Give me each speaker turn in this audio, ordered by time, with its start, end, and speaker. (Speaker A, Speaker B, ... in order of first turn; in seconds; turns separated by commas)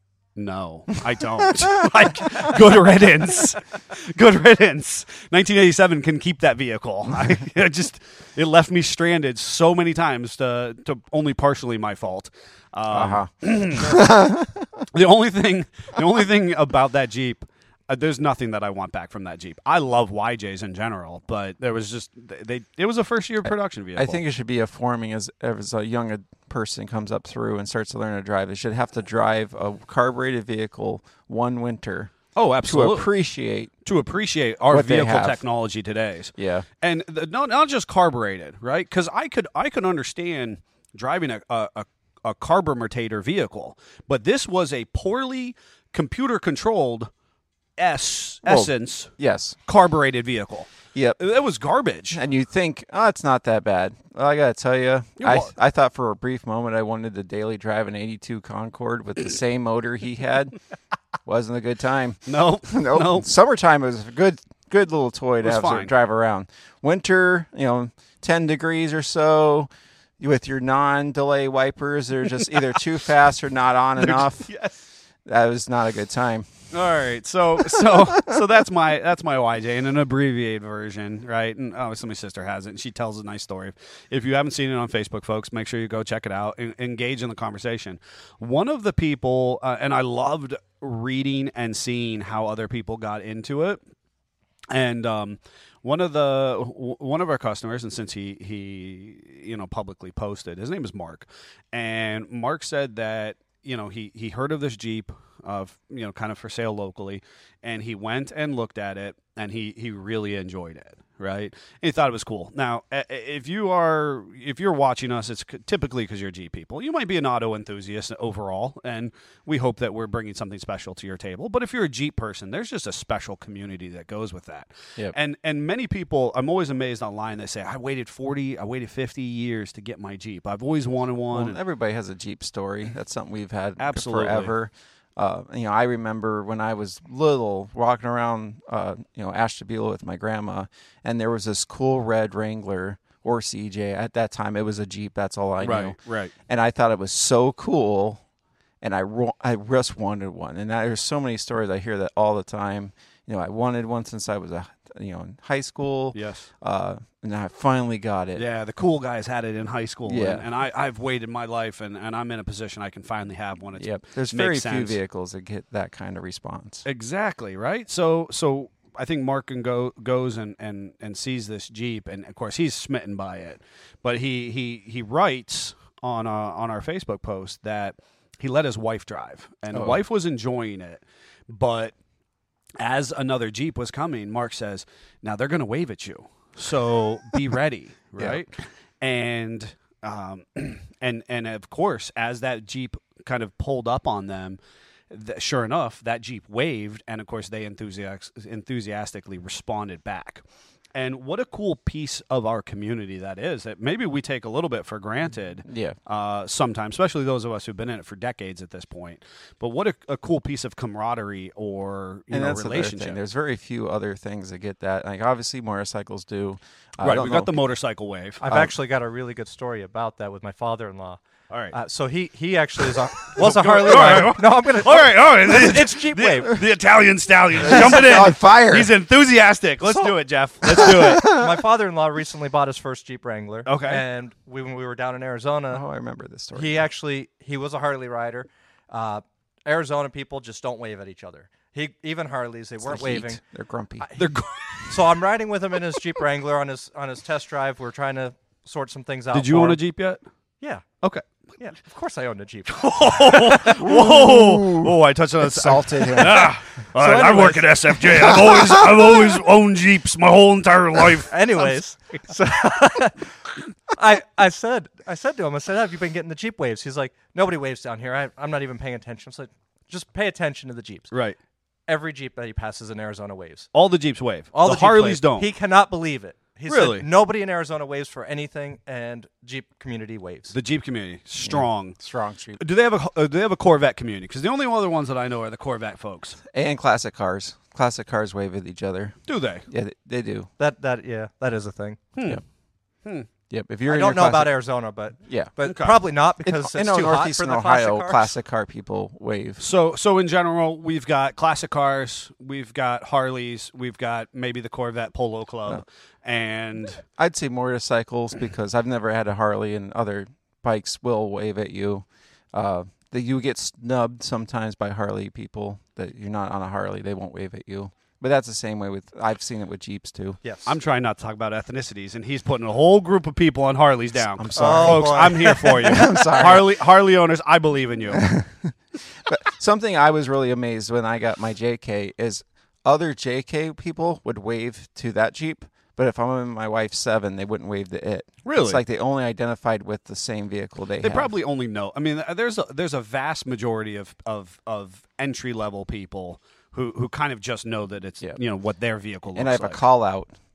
Speaker A: 0.4-14.0, Speaker B: 12.9-14.9, Speaker A: 14.9-24.2, Speaker B: 23.4-33.7, Speaker A: 32.4-33.1, Speaker A: 33.8-47.1, Speaker B: 34.7-35.4, Speaker B: 36.4-36.7, Speaker A: 47.8-49.1, Speaker B: 48.4-49.6, Speaker A: 49.6-52.2, Speaker B: 50.9-51.2, Speaker B: 52.1-60.5, Speaker A: 55.2-55.5, Speaker B: 61.2-74.5, Speaker A: 62.3-63.3, Speaker A: 65.4-65.9, Speaker A: 74.0-74.8, Speaker B: 75.2-76.5, Speaker A: 76.7-93.8, Speaker B: 77.7-78.3, Speaker A: 94.7-131.6, Speaker B: 131.3-148.2, Speaker A: 133.8-134.5, Speaker A: 145.6-146.3, Speaker B: 148.8-158.4, Speaker A: 156.1-156.5, Speaker A: 158.3-165.0, Speaker B: 160.1-160.4, Speaker B: 163.8-166.8, Speaker A: 166.8-181.9, Speaker B: 179.7-180.0, Speaker A: 182.8-194.6, Speaker B: 188.2-188.4, Speaker A: 195.1-200.4, Speaker A: 200.9-213.2, Speaker B: 205.6-206.0, Speaker B: 212.3-217.5, Speaker A: 217.0-218.4, Speaker C: 218.4-221.2, Speaker B: 218.4-218.7, Speaker A: 221.5-221.7, Speaker C: 221.7-226.6, Speaker A: 223.4-231.3, Speaker B: 227.6-228.9, Speaker B: 230.7-231.5, Speaker C: 231.2-235.8, Speaker A: 233.7-234.0, Speaker B: 235.7-236.8, Speaker C: 236.5-243.4, Speaker B: 242.8-244.1, Speaker C: 244.0-244.3, Speaker A: 244.2-244.9, Speaker C: 244.9-249.8, Speaker A: 249.3-250.2, Speaker C: 251.6-253.7, Speaker A: 252.7-261.4, Speaker B: 253.8-256.6, Speaker C: 257.0-258.0, Speaker C: 261.3-263.3, Speaker C: 263.9-271.1, Speaker A: 271.1-271.4, Speaker C: 271.9-273.7, Speaker A: 273.7-275.5, Speaker C: 274.5-280.5, Speaker A: 276.7-277.1, Speaker A: 280.5-281.9, Speaker B: 281.4-282.6, Speaker A: 282.6-286.4, Speaker B: 286.5-290.5, Speaker A: 289.3-289.6, Speaker C: 290.6-292.1, Speaker A: 292.1-292.4, Speaker B: 293.5-294.6, Speaker C: 293.9-298.3, Speaker B: 295.2-295.5, Speaker A: 295.6-296.0, Speaker B: 296.4-299.6, Speaker A: 299.6-307.0, Speaker B: 307.0-320.4, Speaker A: 320.6-328.3, Speaker B: 324.3-326.7, Speaker C: 324.6-325.8, Speaker B: 328.1-328.7, Speaker B: 329.2-341.3, Speaker A: 338.4-338.8, Speaker A: 341.0-349.8, Speaker B: 349.3-350.4